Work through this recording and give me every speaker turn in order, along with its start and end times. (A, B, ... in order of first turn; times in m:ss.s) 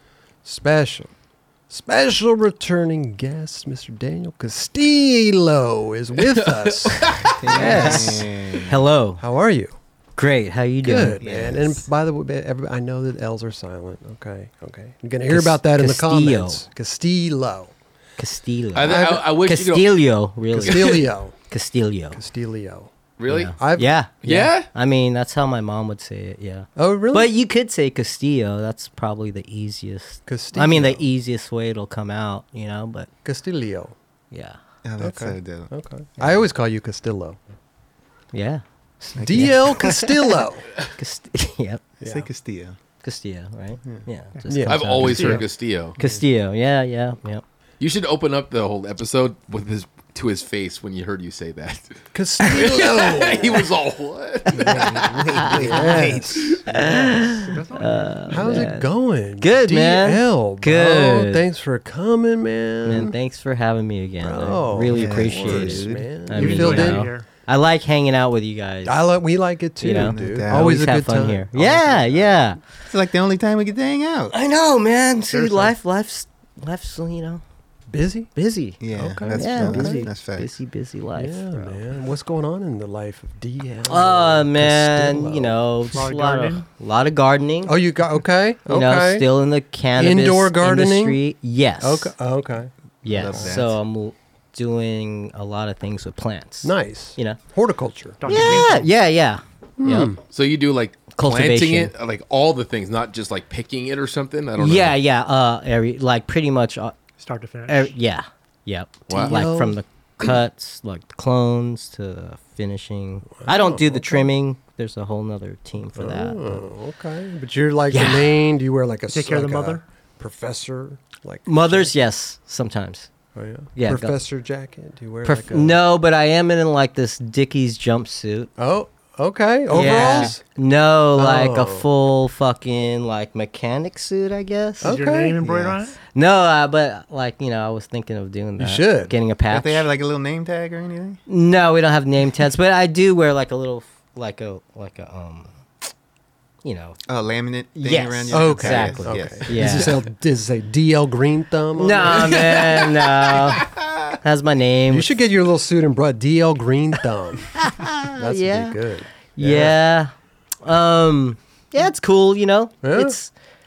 0:00.4-0:01.1 A
0:01.7-0:08.3 A
0:06.2-0:07.4 B
0:07.4-0:08.8 C
0:07.5-0:09.2 D
0:09.2-0:09.8 A
0:10.2-0:11.2 D
0:10.8-0:17.7 A
0:11.2-0:11.8 C
0:15.3-0:16.6 D
0:18.2-0:22.2 D
0:18.7-0:20.0 B
0:18.9-0:19.3 A
0:20.5-0:21.3 A
0:20.7-0:21.0 B
0:22.1-0:22.9 A
0:23.2-0:23.5 B
0:23.3-0:33.1 D
0:23.6-0:24.5 A
0:24.2-0:24.7 B
0:26.8-0:27.3 A
0:30.2-0:31.0 A
0:33.2-0:33.9 A
0:34.3-0:34.6 D
0:34.8-0:35.7 C
0:35.0-0:37.4 A
0:38.3-0:40.4 D
0:39.2-0:40.0 C
0:39.2-0:40.7 A
0:41.0-0:41.8 D
0:42.0-0:42.3 A
0:42.0-0:42.8 C
0:43.0-0:45.4 D
0:44.5-0:45.4 A
0:44.7-0:46.0 B
0:45.0-0:45.4 E
0:46.0-0:47.4 D
0:46.0-0:46.2 A
0:47.8-0:55.5 B
0:52.1-0:53.7 A
0:54.5-0:57.1 A
0:54.7-0:56.6 C
0:54.9-1:01.4 D
0:56.3-0:56.6 B
0:56.8-0:58.3 E
0:58.3-1:03.1 A
1:02.8-1:09.0 D
1:04.2-1:07.1 A
1:04.9-1:06.2 C
1:06.3-1:07.2 E
1:08.8-1:12.4 A
1:09.8-1:12.6 D
1:09.9-1:10.7 C
1:12.9-1:14.4 C
1:14.3-1:17.4 D
1:15.3-1:15.7 A
1:17.9-1:18.3 A
1:18.3-1:21.7 D
1:18.8-1:20.5 C
1:18.9-1:20.1 A
1:21.2-1:25.6 A
1:23.9-1:27.7 D
1:25.9-1:26.6 E
1:27.6-1:29.3 A
1:28.7-1:32.1 D
1:30.0-1:31.2 A
1:31.8-1:33.6 A
1:33.0-1:37.4 D
1:33.1-1:33.8 B
1:36.6-1:38.7 A
1:38.2-1:38.9 E
1:38.2-1:40.1 D
1:39.8-1:40.2 A
1:40.3-1:45.0 B
1:41.1-1:41.9 D
1:44.6-1:46.9 D
1:47.2-1:47.9 E
1:47.7-1:56.6 D
1:49.1-1:49.4 B
1:49.1-1:49.8 A
1:53.4-1:54.3 A
1:55.9-2:01.9 A
1:57.9-1:58.4 D
1:59.1-1:59.8 E
2:01.4-2:03.1 D
2:03.3-2:05.8 A
2:03.7-2:04.2 D
2:05.2-2:08.5 D
2:08.6-2:10.4 A
2:09.7-2:15.0 D
2:09.9-2:10.3 C
2:11.2-2:11.9 A
2:14.8-2:15.7 A
2:14.8-2:16.0 E
2:16.1-2:19.9 D
2:18.6-2:19.1 A
2:19.5-2:21.2 C
2:21.3-2:25.5 D
2:26.6-2:27.0 D
2:27.1-2:29.9 C
2:27.8-2:30.0 D
2:28.3-2:32.5 A
2:31.8-2:33.7 D
2:32.1-2:33.5 B
2:34.2-2:35.1 D
2:34.9-2:37.6 A
2:37.5-2:38.8 D
2:38.2-2:39.8 A
2:39.4-2:40.1 D
2:40.6-2:43.3 D
2:42.8-2:43.2 A